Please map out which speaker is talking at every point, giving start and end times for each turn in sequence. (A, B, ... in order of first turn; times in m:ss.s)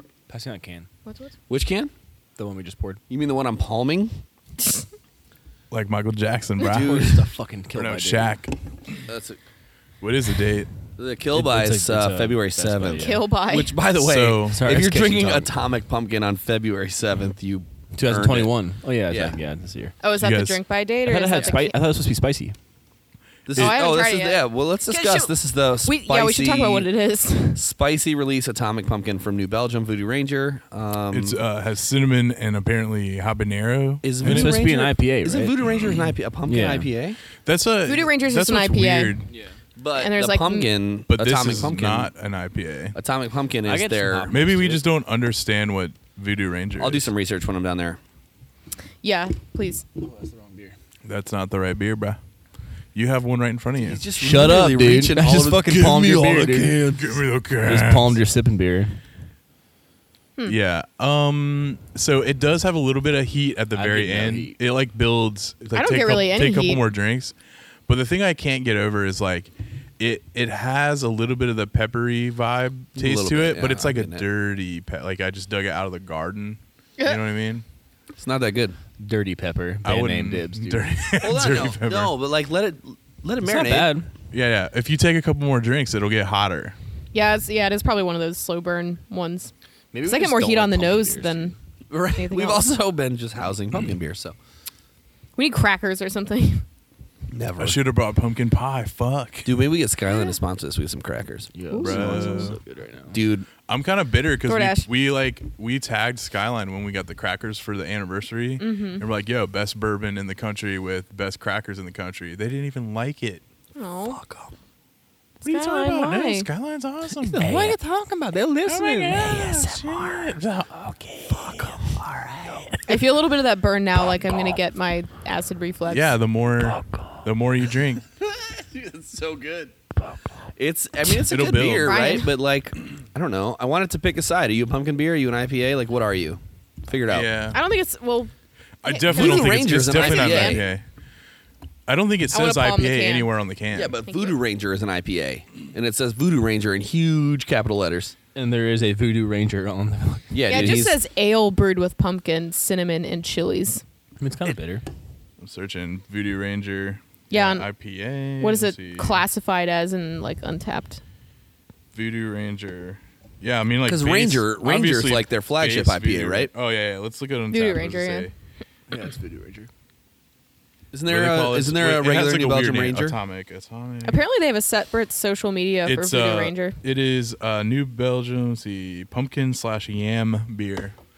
0:00.3-0:00.9 A
0:01.0-0:01.3 B
0:01.5-0:01.9 C
0:02.4-0:03.0 A
0:03.1-0:04.2 C
0:05.7-0:07.1 D
0:06.6-0:07.3 C
0:06.7-0:08.4 A
0:07.7-0:09.0 D
0:09.1-0:09.4 C
0:10.0-0:10.7 D
0:11.0-0:18.5 C
0:11.3-0:13.2 A
0:13.0-0:13.8 B
0:13.9-0:14.6 D
0:14.5-0:15.5 A
0:17.9-0:19.9 A
0:19.1-0:19.4 C
0:20.0-0:21.8 B
0:20.2-0:20.6 D
0:21.0-0:22.5 A
0:23.4-0:26.9 C
0:23.5-0:23.8 D
0:23.6-0:27.6 B
0:27.6-0:31.4 C
0:31.1-0:34.6 D
0:34.0-0:37.2 C
0:34.2-0:35.6 A
0:35.7-0:36.1 D
0:36.4-0:36.9 A
0:37.4-0:39.2 D
0:37.9-0:39.2 B
0:39.8-0:42.1 C
0:39.9-0:40.7 B
0:41.1-0:42.9 D
0:42.9-0:44.3 C
0:43.6-0:44.8 A
0:44.3-0:47.1 D
0:46.8-0:48.0 C
0:49.0-0:49.8 B
0:50.0-0:50.7 A
0:51.0-0:52.2 D
0:52.9-0:54.0 D
0:53.8-0:57.2 C
0:54.2-0:56.8 A
0:56.9-0:58.2 D
0:57.6-0:59.0 A
1:00.4-1:07.3 D
1:03.7-1:04.6 A
1:05.7-1:06.8 B
1:07.9-1:17.6 D
1:13.0-1:14.2 C
1:18.2-1:18.8 C
1:19.0-1:20.9 A
1:19.8-1:22.1 D
1:21.2-1:23.9 C
1:23.4-1:24.1 A
1:24.3-1:26.7 D
1:27.1-1:29.5 B
1:29.9-1:31.5 A
1:30.0-1:31.5 B
1:31.9-1:34.4 C
1:32.1-1:32.6 B
1:35.4-1:36.6 B
1:37.3-1:37.8 C
1:37.6-1:39.5 D
1:39.4-1:41.5 C
1:40.1-1:40.4 B
1:41.5-1:43.2 A
1:41.7-1:42.2 B
1:41.8-1:42.6 D
1:43.1-1:43.5 C
1:43.7-1:53.4 D
1:44.4-1:44.9 B
1:48.6-1:49.0 B
1:53.8-1:54.2 B
1:54.0-1:54.5 C
1:55.4-1:56.5 B
1:55.4-1:57.7 D
1:57.2-1:59.6 A
1:57.4-1:57.7 C
1:58.6-2:01.7 D
1:59.2-2:00.3 C
2:01.4-2:02.6 C
2:02.9-2:06.1 B
2:05.9-2:08.0 D
2:08.2-2:09.7 C
2:10.6-2:17.3 C
2:11.3-2:12.0 D
2:11.8-2:12.3 B
2:17.1-2:17.6 D
2:17.5-2:18.3 B
2:18.8-2:20.8 D
2:18.8-2:20.6 B
2:19.1-2:20.7 C
2:21.9-2:24.0 D
2:22.3-2:23.3 B
2:23.7-2:28.1 C
2:24.0-2:24.4 B
2:28.3-2:30.9 A
2:30.3-2:31.0 C
2:30.5-2:33.8 B
2:34.2-2:34.8 A
2:35.4-2:39.2 D
2:37.3-2:37.7 B
2:38.4-2:41.0 B
2:41.9-2:48.3 D
2:43.9-2:46.5 C
2:47.5-2:48.3 B
2:48.9-2:49.7 A
2:50.9-2:53.2 C
2:51.1-2:54.2 D
2:54.0-2:56.8 B
2:55.8-3:00.9 D